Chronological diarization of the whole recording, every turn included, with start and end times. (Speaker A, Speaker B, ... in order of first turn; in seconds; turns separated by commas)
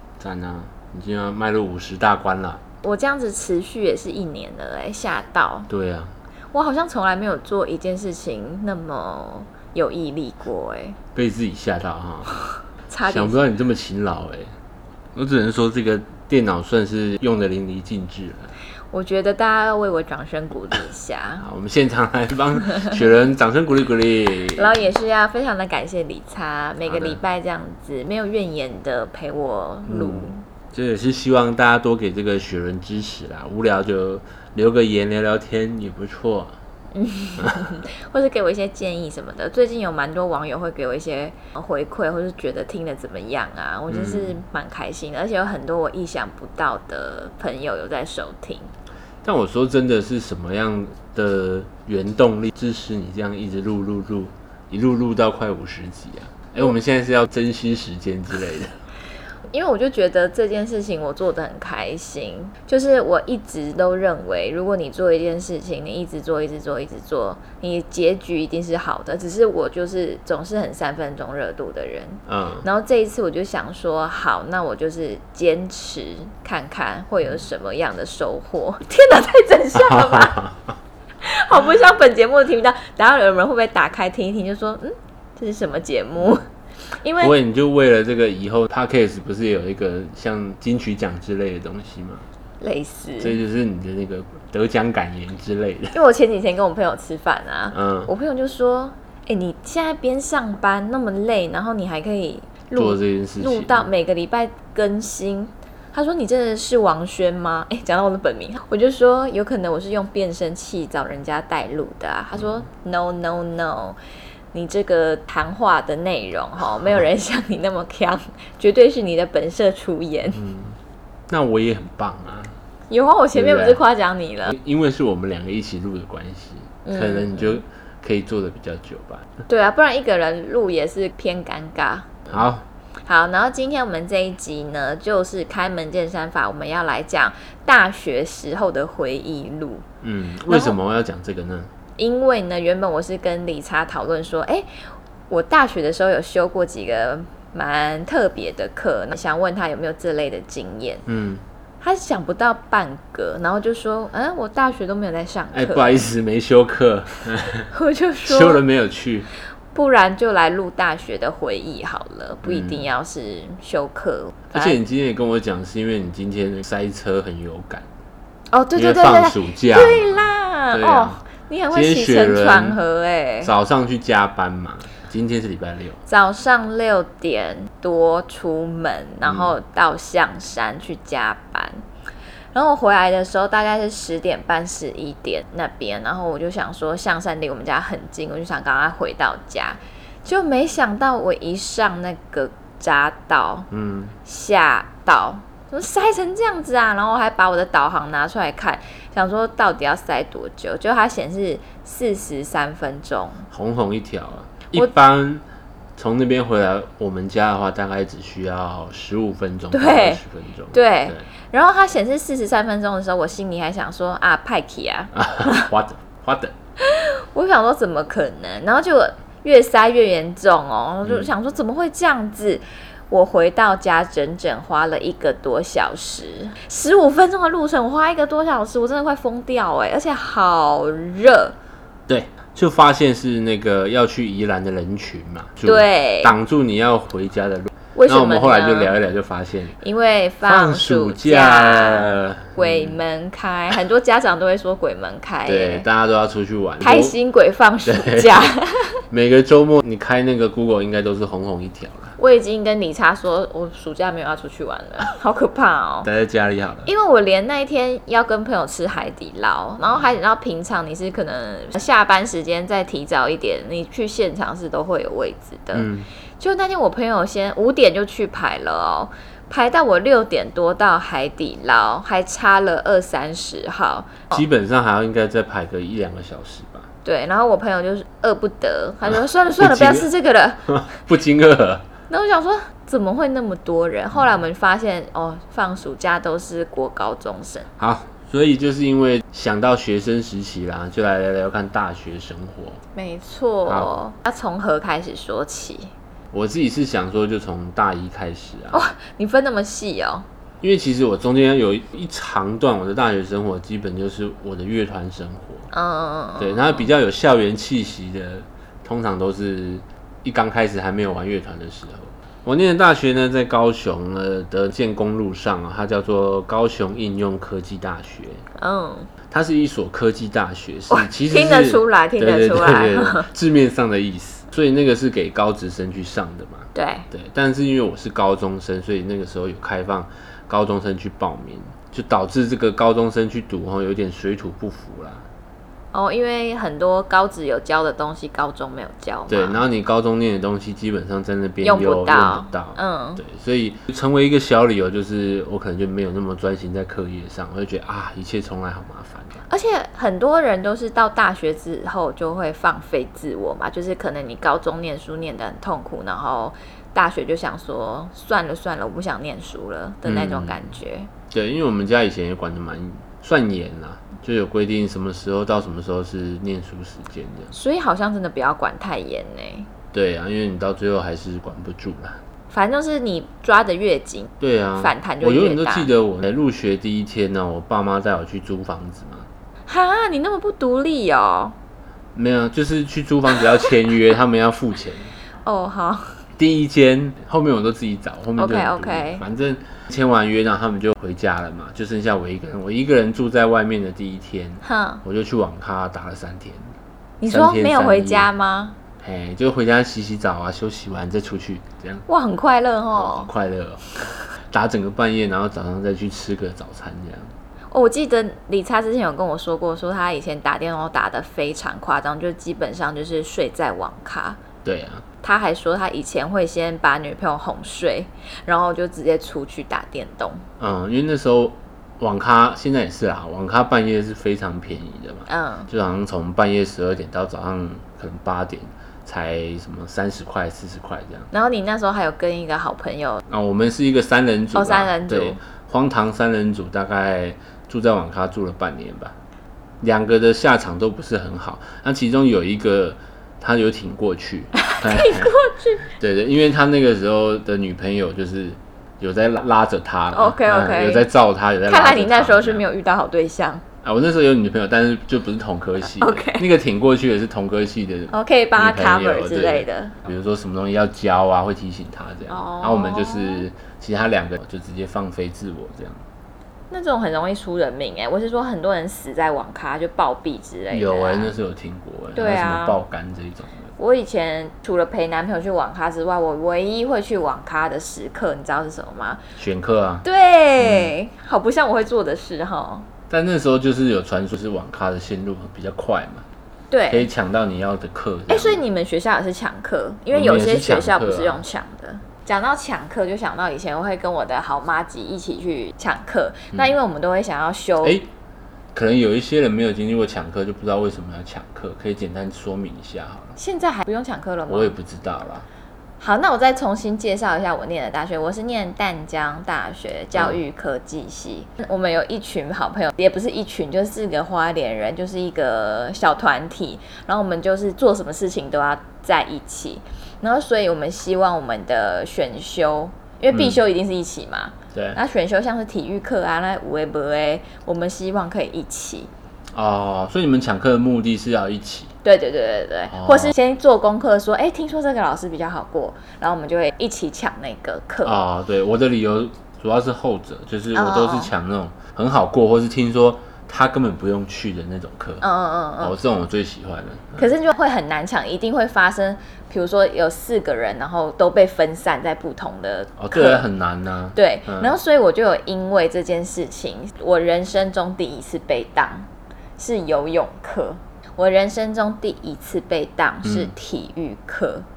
Speaker A: 0.2-2.6, Speaker B: 2.8-5.7, Speaker A: 5.7-6.1, Speaker B: 6.5-11.0, Speaker A: 11.1-12.3, Speaker B: 12.9-13.4, Speaker A: 13.1-14.6, Speaker A: 15.1-18.5, Speaker B: 18.9-21.4, Speaker A: 21.4-24.8, Speaker B: 24.5-30.4, Speaker A: 26.8-27.2, Speaker A: 29.9-36.6, Speaker B: 36.9-48.7, Speaker A: 37.4-37.8, Speaker A: 43.9-44.4, Speaker A: 49.2-58.7, Speaker B: 59.5-80.4, Speaker A: 72.3-72.7, Speaker A: 79.8-80.7, Speaker B: 81.2-87.3, Speaker A: 87.2-92.3, Speaker B: 92.6-93.3, Speaker A: 93.2-96.0, Speaker B: 95.9-114.0, Speaker A: 97.7-98.1, Speaker A: 102.7-103.8, Speaker B: 114.5-120.4, Speaker A: 120.3-120.8, Speaker A: 121.3-122.5, Speaker B: 122.9-124.5, Speaker A: 123.3-123.8, Speaker A: 124.5-129.3, Speaker B: 126.8-127.4, Speaker B: 129.5-132.3, Speaker A: 132.3-132.6, Speaker B: 133.1-139.8, Speaker A: 140.0-141.7, Speaker B: 140.5-140.8, Speaker B: 142.0-151.0, Speaker A: 151.1-151.4, Speaker B: 151.8-156.1, Speaker A: 155.5-157.7, Speaker B: 157.7-158.6, Speaker A: 158.2-159.3, Speaker B: 159.7-164.8, Speaker A: 162.4-162.9, Speaker A: 164.5-167.9, Speaker B: 168.5-173.5, Speaker A: 168.7-171.2, Speaker A: 171.7-172.8, Speaker A: 173.4-176.0, Speaker B: 176.1-181.8, Speaker A: 179.2-179.5, Speaker B: 182.5-193.7, Speaker A: 193.7-194.1, Speaker B: 194.2-203.4, Speaker A: 203.5-205.4, Speaker A: 205.9-211.3, Speaker B: 209.7-210.2, Speaker B: 210.7-215.7, Speaker A: 215.1-216.5, Speaker B: 216.8-231.5, Speaker A: 221.0-221.3, Speaker A: 232.1-239.8, Speaker B: 235.6-236.3, Speaker B: 237.9-238.9, Speaker B: 239.8-245.9, Speaker A: 240.4-243.0, Speaker A: 245.4-247.2, Speaker B: 246.8-249.0, Speaker A: 247.9-248.5, Speaker A: 249.1-252.1, Speaker B: 252.2-256.1, Speaker A: 256.0-256.9, Speaker B: 256.9-274.4, Speaker A: 265.7-266.1, Speaker A: 274.3-276.9, Speaker B: 277.0-280.8, Speaker A: 279.6-280.1, Speaker A: 280.7-281.9, Speaker B: 282.1-287.7, Speaker A: 287.8-292.8, Speaker B: 292.9-295.9, Speaker A: 293.6-293.9, Speaker A: 296.3-298.8, Speaker B: 298.7-300.2, Speaker A: 300.6-305.7, Speaker B: 305.7-306.9, Speaker A: 306.4-318.4, Speaker B: 318.6-319.1, Speaker A: 319.3-335.2, Speaker B: 320.9-323.3, Speaker B: 326.7-327.1, Speaker B: 335.9-339.6, Speaker A: 339.3-349.4, Speaker B: 341.6-343.2, Speaker B: 349.5-361.1, Speaker A: 360.0-360.6, Speaker A: 361.3-367.5, Speaker B: 367.5-369.7, Speaker A: 369.9-372.2, Speaker B: 372.5-375.9, Speaker A: 374.4-379.3, Speaker B: 379.7-381.6, Speaker A: 382.1-385.1, Speaker B: 385.4-386.2, Speaker A: 386.4-396.7, Speaker B: 388.4-389.2, Speaker B: 394.6-395.0, Speaker B: 397.2-398.8, Speaker A: 397.3-398.3, Speaker A: 399.0-402.1, Speaker B: 402.1-403.3, Speaker A: 402.9-407.3, Speaker B: 407.7-414.4, Speaker A: 414.6-415.0, Speaker B: 415.2-420.4, Speaker A: 420.6-431.3, Speaker B: 425.3-425.7, Speaker B: 431.3-433.2, Speaker A: 433.3-439.1, Speaker B: 434.5-435.4, Speaker A: 439.8-445.3, Speaker B: 444.6-445.9, Speaker A: 446.0-452.6, Speaker B: 450.1-451.1, Speaker B: 451.6-453.6, Speaker A: 453.8-466.0, Speaker B: 456.0-456.4, Speaker B: 458.1-459.9, Speaker B: 462.3-463.4, Speaker B: 466.7-471.3, Speaker A: 470.7-473.7, Speaker B: 472.1-472.8, Speaker B: 473.8-479.2, Speaker A: 479.4-480.0, Speaker B: 480.0-482.9, Speaker A: 480.6-480.9, Speaker A: 483.1-486.2, Speaker B: 486.7-487.1, Speaker A: 486.9-488.6, Speaker B: 488.3-497.9, Speaker A: 490.1-491.4, Speaker A: 498.7-503.4, Speaker B: 503.4-504.7, Speaker A: 504.5-505.5, Speaker B: 506.0-529.1, Speaker A: 524.7-525.0, Speaker A: 529.5-531.9, Speaker B: 532.0-538.2, Speaker A: 532.9-533.3, Speaker A: 538.0-545.2, Speaker B: 540.7-541.3, Speaker B: 545.2-545.9, Speaker A: 545.8-547.3, Speaker B: 547.2-553.4, Speaker A: 553.0-554.7, Speaker B: 554.1-564.6, Speaker A: 563.2-563.5